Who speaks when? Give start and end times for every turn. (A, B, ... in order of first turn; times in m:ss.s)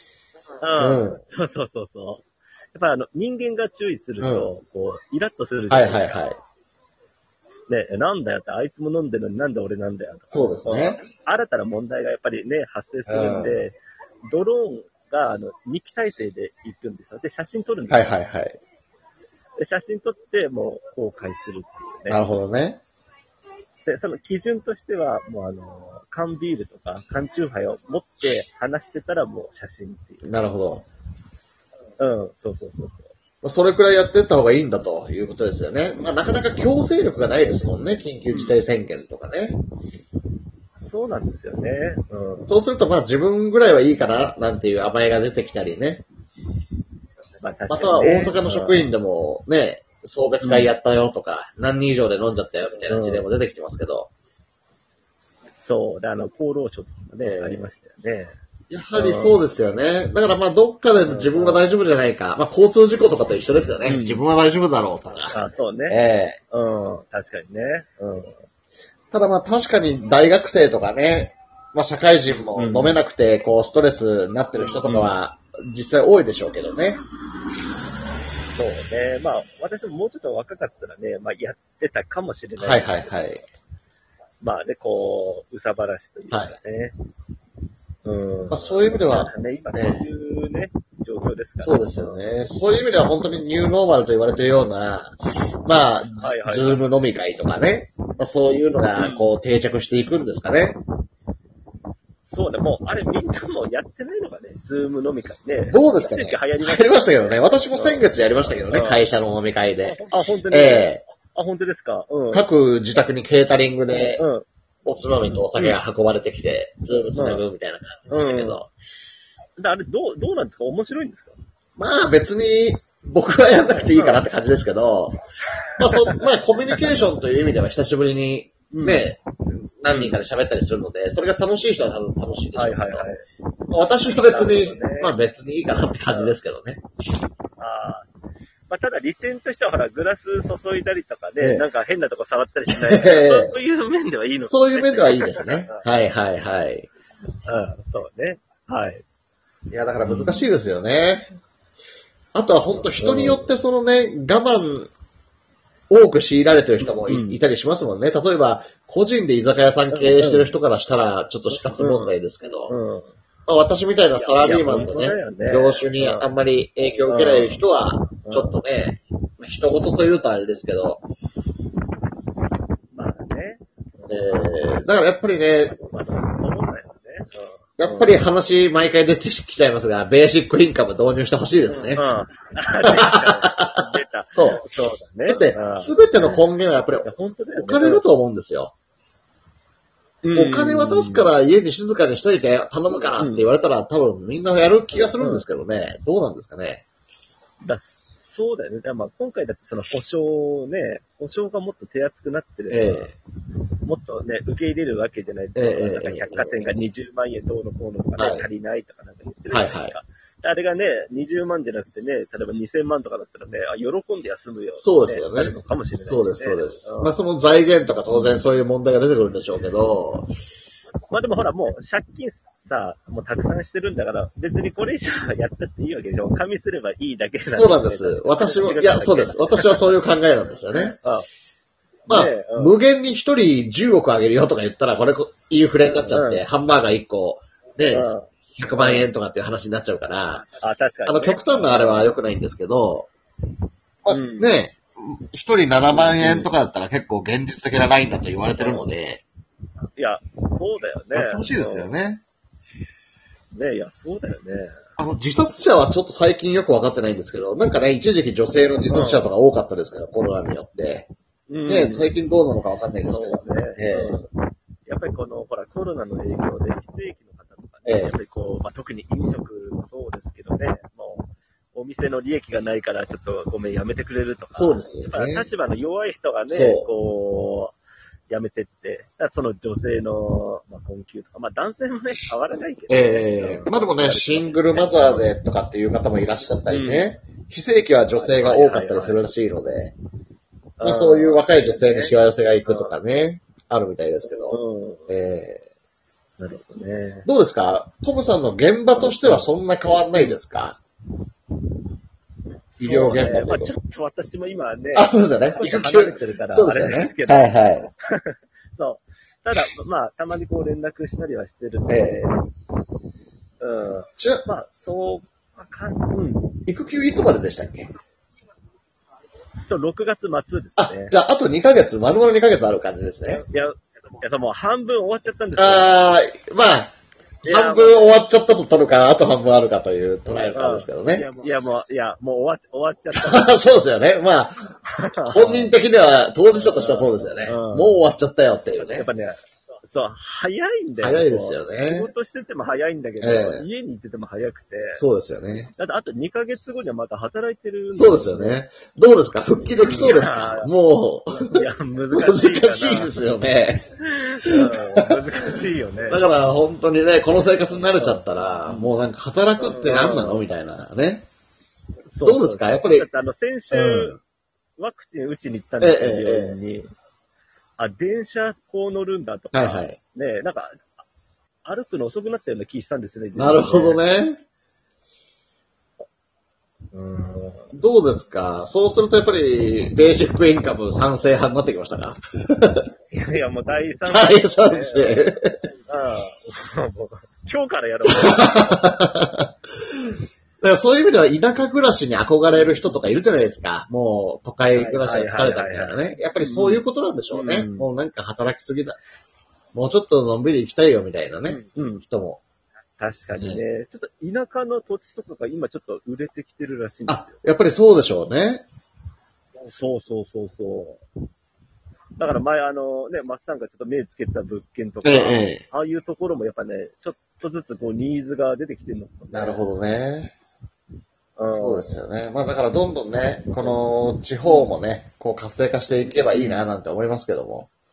0:00.6-0:06.2 A
0:00.8-0:01.2 B
0:04.2-0:04.5 B
0:05.7-0:06.4 B
0:07.7-0:13.8 A
0:10.3-0:11.0 B
0:13.1-0:13.6 B
0:14.3-0:18.1 A
0:17.9-0:18.6 B
0:19.6-0:22.2 A
0:22.1-0:22.8 B
0:23.8-0:30.4 A
0:30.2-0:30.8 B
0:32.0-0:33.1 A
0:33.4-0:39.6 B
0:38.3-0:38.6 A
0:40.8-0:42.5 A
0:42.5-0:46.0 B
0:47.4-0:48.9 A
0:47.7-0:54.1 B
0:50.4-0:50.7 A
0:52.9-0:53.3 A
0:55.6-0:58.3 A
0:57.1-0:57.7 B
0:58.7-1:06.4 B
0:58.9-0:59.4 A
1:01.0-1:01.6 A
1:03.8-1:04.2 A
1:05.3-1:06.0 A
1:06.5-1:08.4 A
1:09.1-1:17.0 B
1:12.5-1:13.0 A
1:14.6-1:15.1 A
1:18.5-1:23.5 A
1:22.6-1:23.4 B
1:24.4-1:26.9 A
1:26.3-1:26.6 B
1:28.0-1:32.2 A
1:28.5-1:30.1 B
1:31.6-1:40.8 B
1:36.2-1:36.8 A
1:39.0-1:39.3 A
1:42.3-1:49.0 A
1:45.7-1:51.0 B
1:49.8-1:52.4 A
1:52.3-1:54.2 B
1:53.9-1:54.4 A
1:54.8-1:58.7 B
1:55.3-1:55.8 A
1:57.1-1:57.4 A
1:58.1-1:58.6 A
1:59.6-2:01.4 A
2:01.8-2:05.2 B
2:03.7-2:04.2 A
2:05.8-2:13.1 B
2:06.0-2:06.8 A
2:08.7-2:09.1 A
2:09.9-2:10.2 A
2:12.5-2:13.2 A
2:13.7-2:16.8 B
2:14.0-2:15.1 A
2:16.1-2:16.4 A
2:17.6-2:18.1 A
2:18.7-2:25.9 A
2:21.4-2:21.7 B
2:22.7-2:23.5 B
2:24.4-2:26.9 B
2:27.4-2:29.0 A
2:29.7-2:31.3 B
2:30.0-2:30.5 A
2:32.3-2:34.9 B
2:32.7-2:33.5 A
2:35.9-2:42.7 B
2:36.8-2:37.4 A
2:39.9-2:40.5 A
2:41.5-2:42.1 A
2:42.7-2:43.1 A
2:43.5-2:51.0 B
2:44.2-2:46.2 A
2:47.1-2:47.6 A
2:48.2-2:48.6 A
2:52.9-2:54.5 A
2:54.1-2:55.8 B
2:55.8-2:58.2 A
2:57.8-3:02.0 B
3:01.7-3:06.4 A
3:02.8-3:03.8 B
3:04.3-3:04.6 B
3:05.3-3:08.7 B
3:07.0-3:08.0 A
3:10.2-3:11.3 A
3:10.3-3:16.8 B
3:13.2-3:13.4 A
3:15.2-3:15.4 A
3:17.6-3:23.1 A
3:22.7-3:23.2 B
3:23.8-3:37.1 A
3:25.6-3:26.8 B
3:28.2-3:28.5 B
3:29.5-3:29.9 B
3:34.8-3:40.3 B
3:41.1-3:49.8 A
3:47.4-3:51.0 B
3:50.7-3:51.3 A
3:52.1-3:52.8 A
3:52.1-4:00.5 B
3:55.9-3:56.4 A
3:57.9-3:59.1 A
4:00.4-4:02.1 A
4:01.0-4:03.1 B
4:04.0-4:09.2 B
4:04.1-4:04.6 A
4:05.9-4:06.5 A
4:08.6-4:08.9 A
4:10.0-4:11.9 A
4:11.1-4:12.2 B
4:13.5-4:14.8 A
4:15.0-4:21.1 B
4:18.9-4:19.3 A
4:21.5-4:22.1 A
4:21.7-4:24.2 B
4:23.0-4:24.3 A
4:24.8-4:37.8 A
4:27.8-4:28.2 B
4:34.5-4:35.5 B
4:36.5-4:36.9 B
4:38.3-4:45.3 A
4:42.9-4:49.9 B
4:46.6-4:47.1 A
4:48.1-4:49.2 A
4:50.8-4:52.1 A
4:50.8-4:55.6 B
4:52.6-4:52.9 A
4:54.4-4:55.1 A
4:56.4-4:57.3 A
4:57.2-5:00.8 B
4:58.9-4:59.5 A
5:00.1-5:00.4 A
5:02.7-5:12.4 A
5:02.8-5:03.7 B
5:04.9-5:07.9 B
5:11.9-5:12.2 B
5:13.6-5:16.5 A
5:14.2-5:14.4 B
5:16.6-5:17.9 B
5:19.7-5:21.1 A
5:20.8-5:23.4 B
5:23.3-5:25.9 A
5:25.6-5:31.3 B
5:27.4-5:28.2 A
5:30.4-5:33.6 A
5:33.1-5:39.0 B
5:34.9-5:35.8 A
5:36.5-5:38.0 A
5:38.8-5:45.0 A
5:41.0-5:42.1 B
5:43.2-5:43.6 B
5:45.0-5:45.7 B
5:45.8-5:48.6 A
5:47.9-5:51.6 B
5:49.8-5:50.7 A
5:51.4-5:53.1 A
5:52.1-5:53.9 B
5:54.1-5:56.2 A
5:54.4-5:55.1 B
5:56.1-6:01.3 B
5:57.9-5:58.9 A
5:59.6-6:00.4 A
6:02.1-6:04.2 A
6:02.2-6:03.1 B
6:03.7-6:04.2 B
6:04.8-6:06.9 A
6:05.8-6:06.6 B
6:07.8-6:10.9 A
6:09.5-6:10.0 B
6:11.6-6:14.0 A
6:13.4-6:14.4 B
6:16.9-6:17.7 A
6:17.7-6:22.8 B
6:23.1-6:25.2 A
6:24.1-6:25.6 B
6:25.9-6:28.8 A
6:28.0-6:29.5 B
6:30.6-6:39.0 B
6:34.7-6:37.9 A
6:39.7-6:42.4 B
6:41.5-6:42.0 A
6:43.0-6:47.3 A
6:47.1-6:48.6 B
6:49.6-6:51.0 A
6:52.2-6:59.6 A
6:55.0-6:55.6 B
6:59.3-7:00.3 B
7:01.4-7:02.0 A
7:01.5-7:07.7 B
7:04.4-7:04.7 A
7:06.3-7:06.6 A